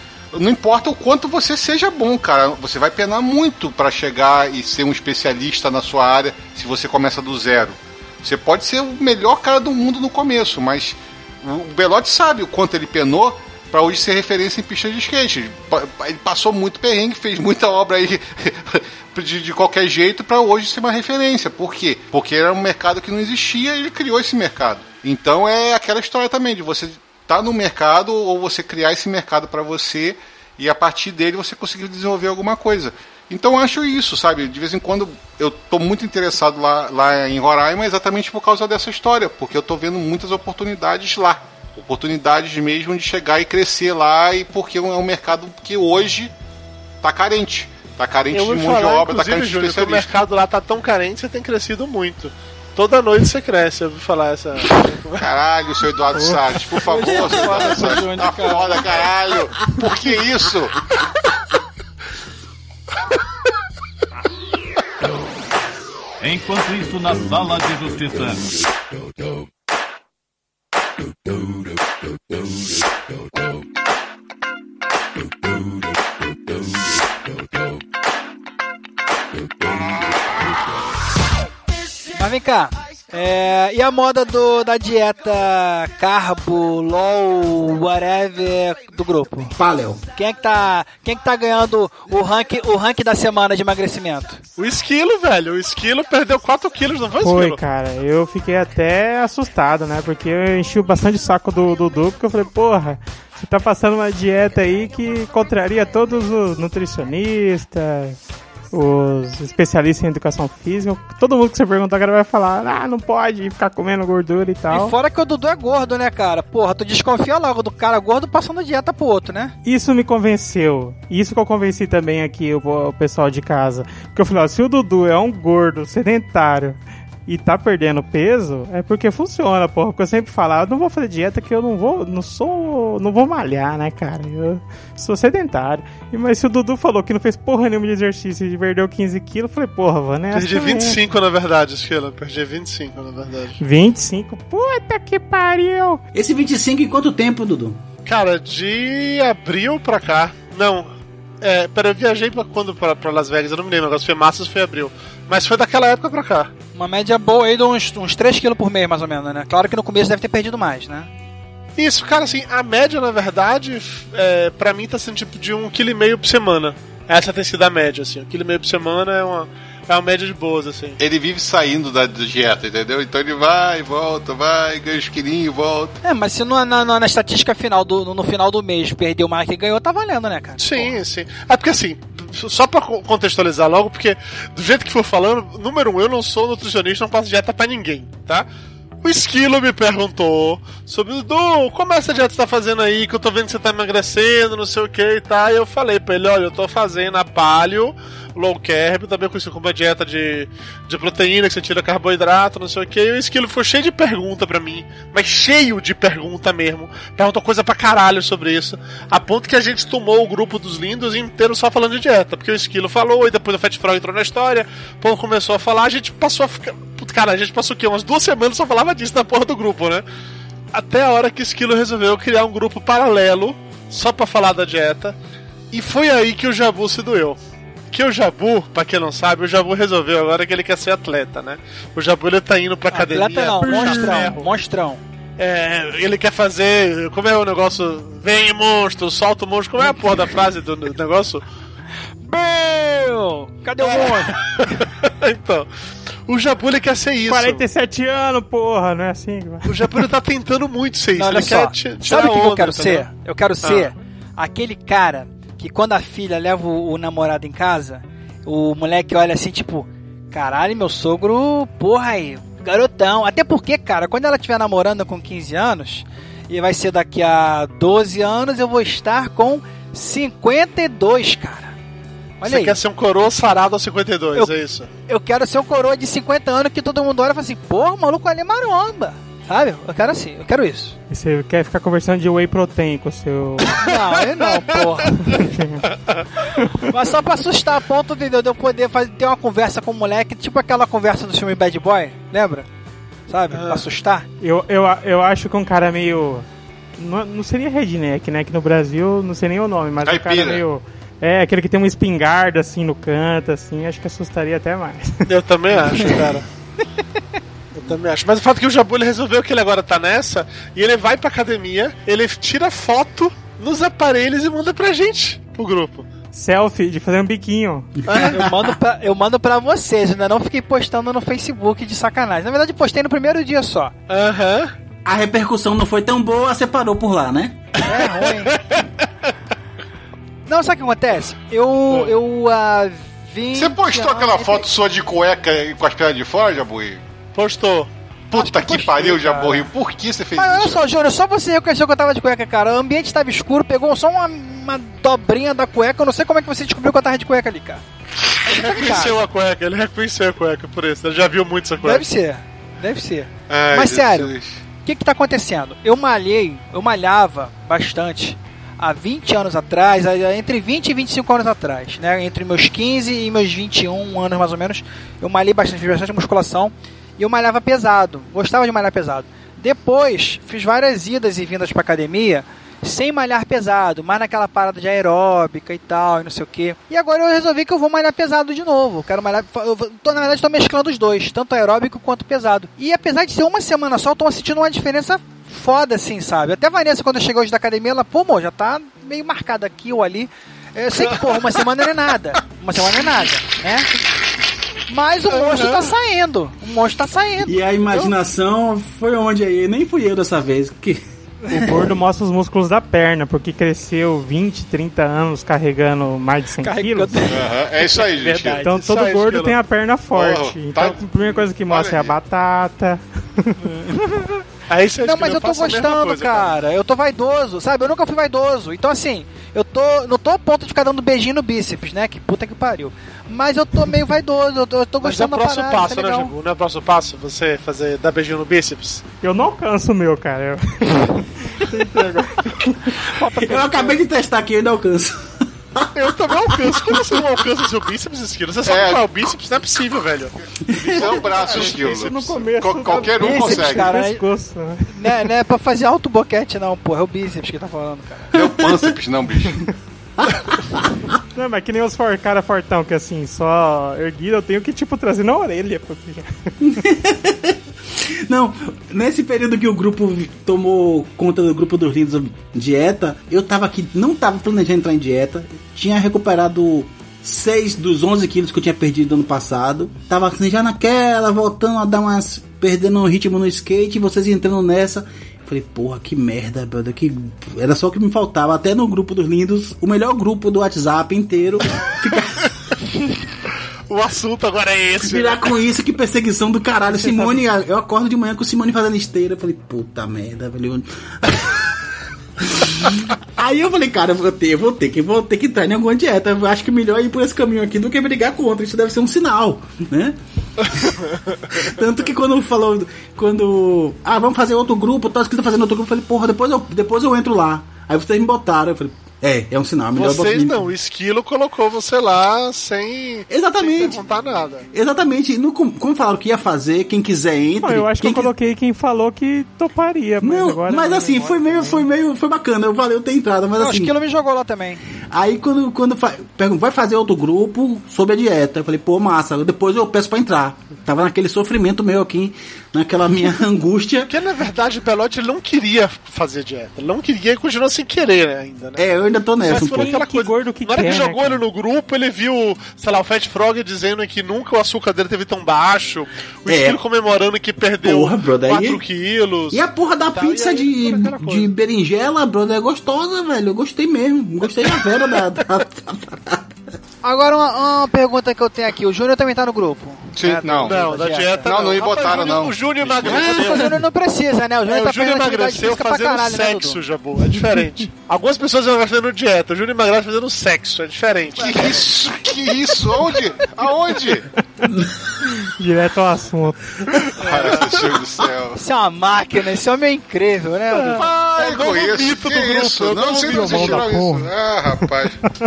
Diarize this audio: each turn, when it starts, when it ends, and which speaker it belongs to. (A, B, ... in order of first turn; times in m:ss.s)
0:00.3-0:46.3 A
0:47.0-0:50.1 A
0:48.3-0:55.3 B
0:55.2-1:00.8 A
0:56.1-0:56.4 C
0:56.9-0:59.0 D
1:06.2-1:08.6 E
1:22.1-1:29.6 D
1:29.6-1:30.0 F
1:30.2-1:34.4 D
1:34.6-1:37.6 B
1:37.2-1:48.2 C
1:48.7-1:55.0 C
1:54.7-1:59.6 D
1:59.6-2:21.0 C
2:20.3-2:23.6 B
2:23.6-2:26.0 C
2:26.1-2:27.8 F
2:28.1-2:36.5 B
2:36.8-2:41.1 D
2:41.8-2:51.0 B
2:51.0-2:56.0 A
2:56.0-3:01.0 D
3:00.6-3:08.5 B
3:09.0-3:40.0 B
3:40.7-3:45.2 B
3:45.7-3:47.4 B
3:47.9-3:54.4 B
3:52.9-3:55.0 D
3:53.6-3:54.4 C
3:55.4-4:01.4 B
4:02.2-4:04.4 D
4:03.8-4:05.7 B
4:06.3-4:07.6 B
4:07.3-4:09.8 C
4:09.6-4:13.1 B
4:11.2-4:31.7 D
4:13.6-4:13.9 B
4:32.4-4:32.8 D
4:32.4-4:34.9 B
4:35.1-4:41.0 D
4:41.1-4:43.9 C
4:43.8-4:45.4 D
4:44.4-4:44.8 B
4:45.3-4:45.8 C
4:46.6-4:46.9 C
4:46.9-4:52.7 D
4:53.3-4:54.2 D
4:53.5-4:53.8 B
4:54.4-4:56.4 C
4:57.0-5:05.3 C
5:00.0-5:00.6 A
5:05.3-5:06.5 B
5:07.7-5:16.1 B
5:16.3-5:17.9 C
5:18.0-5:18.8 F
5:18.1-5:18.4 B
5:18.1-5:23.9 D
5:24.1-5:24.7 B
5:25.0-5:27.7 F
5:27.8-5:28.6 D
5:27.9-5:29.1 B
5:30.5-5:34.7 D
5:31.9-5:32.2 B
5:33.5-5:37.0 A
5:37.4-5:37.9 B
5:38.3-5:40.8 A
5:38.4-5:39.7 D
5:40.4-5:47.8 D
5:48.5-5:52.0 B
5:48.5-5:49.2 D
5:51.8-5:54.3 D
5:53.5-5:54.6 A
5:54.8-6:33.9 D
6:34.9-6:38.1 D
6:35.3-6:35.9 B
6:37.4-6:41.9 F
6:41.5-6:47.2 C
6:46.6-6:48.7 D
6:47.3-6:48.6 A
6:48.6-6:53.7 C
6:48.6-6:49.6 B
6:50.1-6:52.2 A
6:53.6-6:54.4 D
6:54.7-6:56.5 B
6:55.0-7:06.3 D
7:05.0-7:09.0 B
7:09.2-7:12.7 C
7:13.3-7:17.2 F
7:13.4-7:13.9 D
7:15.9-7:22.4 B
7:18.6-7:19.1 A
7:20.7-7:21.0 F
7:20.8-7:24.0 A
7:21.5-7:25.0 C
7:23.2-7:24.2 D
7:24.9-7:28.3 D
7:28.3-7:29.7 A
7:28.4-7:28.9 F
7:31.4-7:36.3 C
7:36.6-8:02.5 F
8:03.9-8:05.5 B
8:05.0-8:11.7 F
8:12.4-8:20.2 F
8:20.7-8:21.0 F
8:21.5-8:30.7 F
8:30.0-8:34.7 B
8:33.3-8:34.0 F
8:34.7-8:38.3 F
8:37.6-8:41.9 C
8:40.2-8:43.9 F
8:43.6-8:44.8 D
8:45.1-8:54.1 F
8:54.1-8:58.8 B
8:58.8-9:00.0 F
8:59.5-9:01.4 C
8:59.5-9:11.5 B
9:06.5-9:06.8 F
9:07.8-9:08.8 F
9:09.5-9:16.5 F
9:17.0-9:22.2 D
9:20.2-9:20.8 A
9:20.6-9:23.8 B
9:21.4-9:23.4 A
9:23.0-9:26.8 D
9:24.7-9:31.9 B
9:31.4-9:34.3 A
9:35.2-9:36.7 C
9:37.2-9:38.6 A
9:37.2-9:37.6 D
9:38.6-9:41.1 D
9:40.9-9:44.0 B
9:41.3-9:45.2 A
9:43.3-9:44.3 C